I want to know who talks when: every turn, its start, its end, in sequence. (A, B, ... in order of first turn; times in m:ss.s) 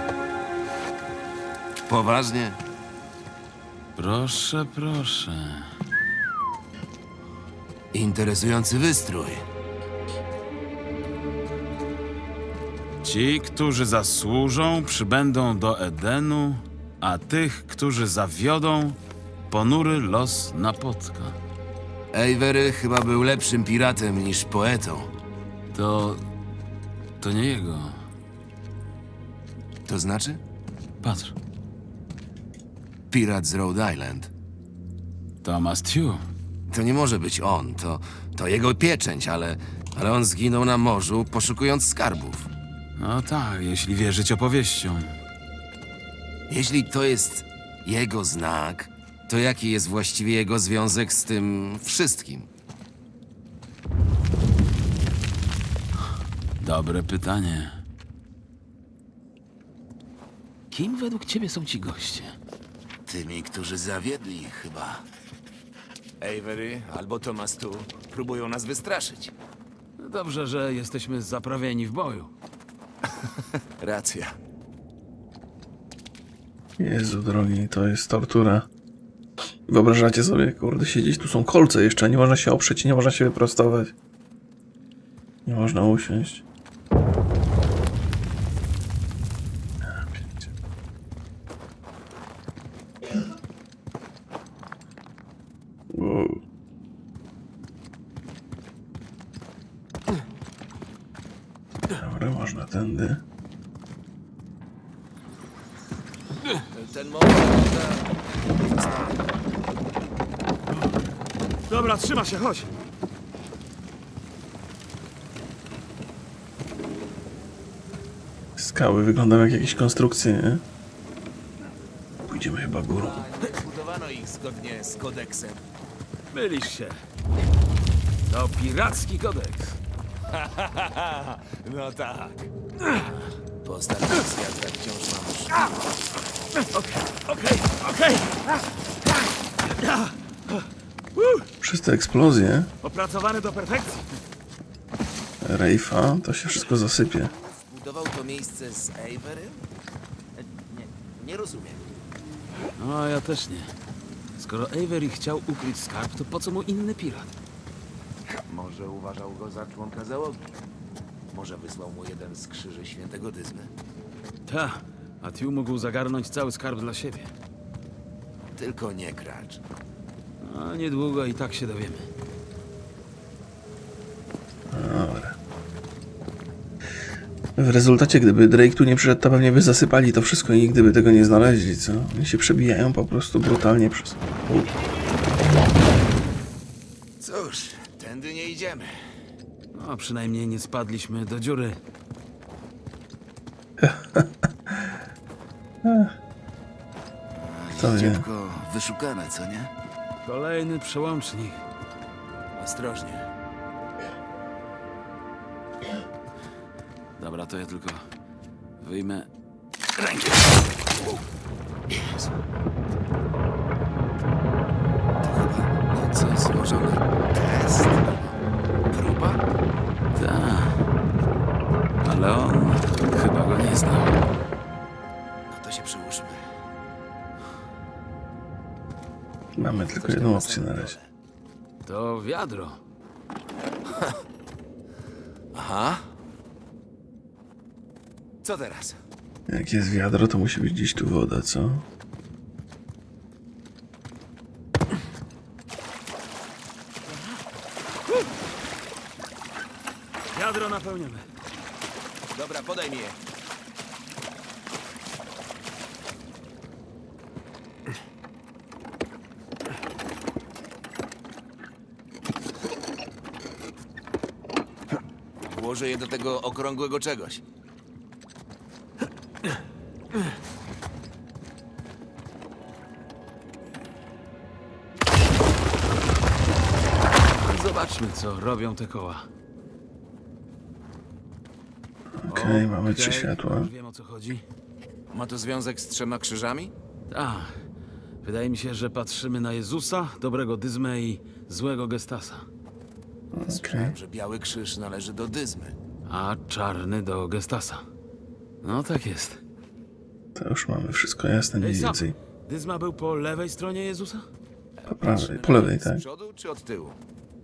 0:01.9-0:02.6 A
0:04.0-0:05.7 B
0:07.9-0:09.4 A
0:13.0-0:19.0 B
0:19.5-0:21.4 B
0:22.1-0:25.1 A
0:25.7-0:26.2 B
0:27.2-0:28.0 B
0:29.8-0:30.4 A
0:31.0-0:31.3 B
0:33.1-0:34.3 A
0:35.4-0:36.2 B
0:36.7-0:42.5 A
0:43.0-0:45.2 B
0:46.5-0:52.5 A
0:56.6-0:57.8 B
1:00.7-1:02.4 B
1:03.0-1:05.0 A
1:06.2-1:09.3 A
1:10.0-1:12.3 B
1:13.2-1:14.4 A
1:16.8-1:18.7 C
1:19.7-1:23.9 C
1:25.4-1:26.4 C
1:29.8-1:30.5 C
1:35.9-1:36.4 C
1:41.9-1:43.2 C
1:46.6-1:48.1 A
1:51.7-1:52.7 B
1:58.6-2:00.6 C
2:02.2-2:03.2 C
2:02.9-2:05.6 A
2:06.3-2:07.0 B
2:08.3-2:09.8 B
2:10.3-2:13.1 A
2:13.6-2:15.8 A
2:16.7-2:18.6 B
2:19.7-2:21.5 B
2:21.6-2:22.7 C
2:22.8-2:24.0 B
2:25.4-2:27.3 C
2:27.3-2:29.6 A
2:30.4-2:31.9 A
2:32.8-2:33.7 B
2:34.4-2:37.3 B
2:38.3-2:40.6 A
2:41.3-2:43.7 A
2:44.5-2:47.3 B
2:48.6-2:49.6 A
2:50.4-2:52.1 B
2:54.7-2:55.4 C
2:57.6-3:04.7 C
3:07.2-3:09.1 A
3:09.7-3:11.8 B
3:13.8-3:15.0 C
3:15.8-3:16.1 C
3:17.3-3:19.7 A
3:17.8-3:18.2 C
3:20.2-3:21.6 B
3:22.6-3:23.3 A
3:27.2-3:28.1 B
3:28.8-3:29.3 B
3:30.0-3:30.4 B
3:31.9-3:32.3 A
3:35.2-3:38.1 A
3:38.9-3:39.4 A
3:40.1-3:40.8 B
3:42.0-3:44.1 B
3:45.5-3:46.5 A
3:49.6-3:50.9 C
3:49.6-3:51.1 A
3:51.8-3:52.8 B
3:53.9-3:54.2 A
3:55.5-3:56.0 A
3:58.4-3:59.0 A
3:59.5-4:01.8 C
4:10.3-4:11.2 B
4:12.3-4:13.2 A
4:25.4-4:27.4 A
4:37.4-4:39.3 B
4:42.2-4:43.7 C
4:42.3-4:44.4 B
4:45.1-4:46.7 A
4:47.1-4:47.6 B
4:48.2-4:52.4 B
4:53.3-4:53.9 C
4:53.4-4:55.7 A
4:56.1-4:57.8 B
4:58.6-4:59.4 B
5:00.3-5:02.1 C
5:01.6-5:04.2 B
5:04.8-5:07.0 A
5:04.9-5:06.0 C